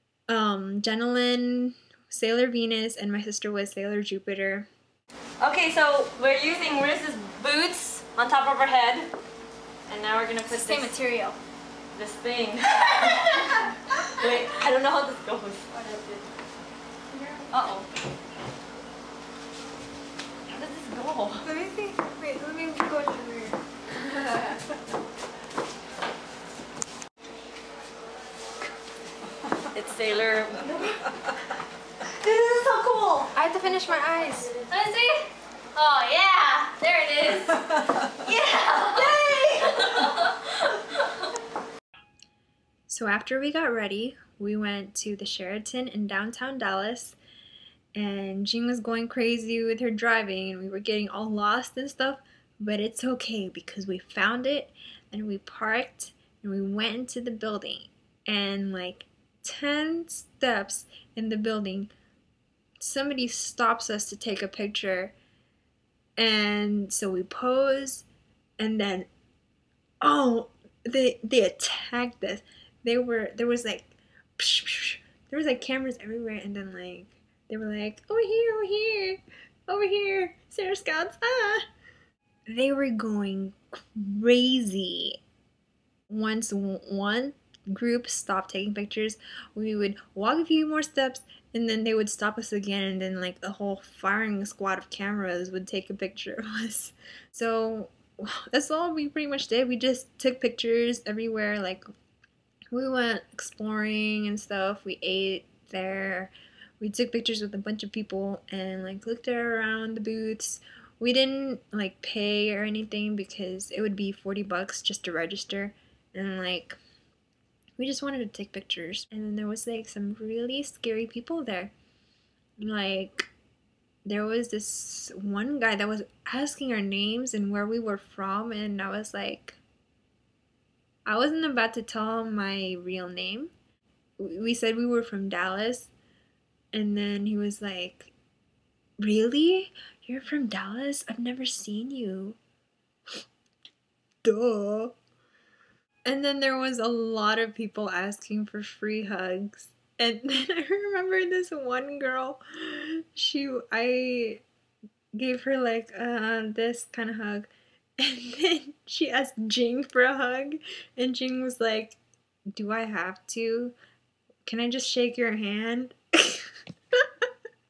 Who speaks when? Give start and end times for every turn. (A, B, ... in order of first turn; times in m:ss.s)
0:00.3-0:04.7 A
0:05.4-0:09.1 B
0:09.9-0:11.0 B
0:10.5-0:11.4 A
0:11.9-0:16.3 B
0:17.5-0:17.9 B
0:20.5-0:21.5 B
0:21.4-0:24.6 A
0:29.7-0:31.0 B
0:32.2-0:33.3 B
0:33.3-0:34.5 A
0:34.7-0:41.0 B
0:42.9-0:47.2 A
0:48.0-1:01.9 A
1:02.8-1:05.1 A
1:06.2-1:08.0 A
1:08.6-1:09.1 A
1:10.0-1:21.6 A
1:22.5-1:25.2 A
1:26.1-1:41.8 A
1:42.7-1:56.8 A
1:57.8-2:01.7 A
2:02.6-2:03.3 A
2:04.0-2:09.6 A
2:11.0-2:13.5 A
2:14.2-2:15.9 A
2:16.7-2:18.1 A
2:19.0-2:22.4 A
2:24.2-2:24.9 A
2:26.0-2:34.4 A
2:35.1-2:42.0 A
2:42.5-2:43.7 A
2:44.4-2:47.2 A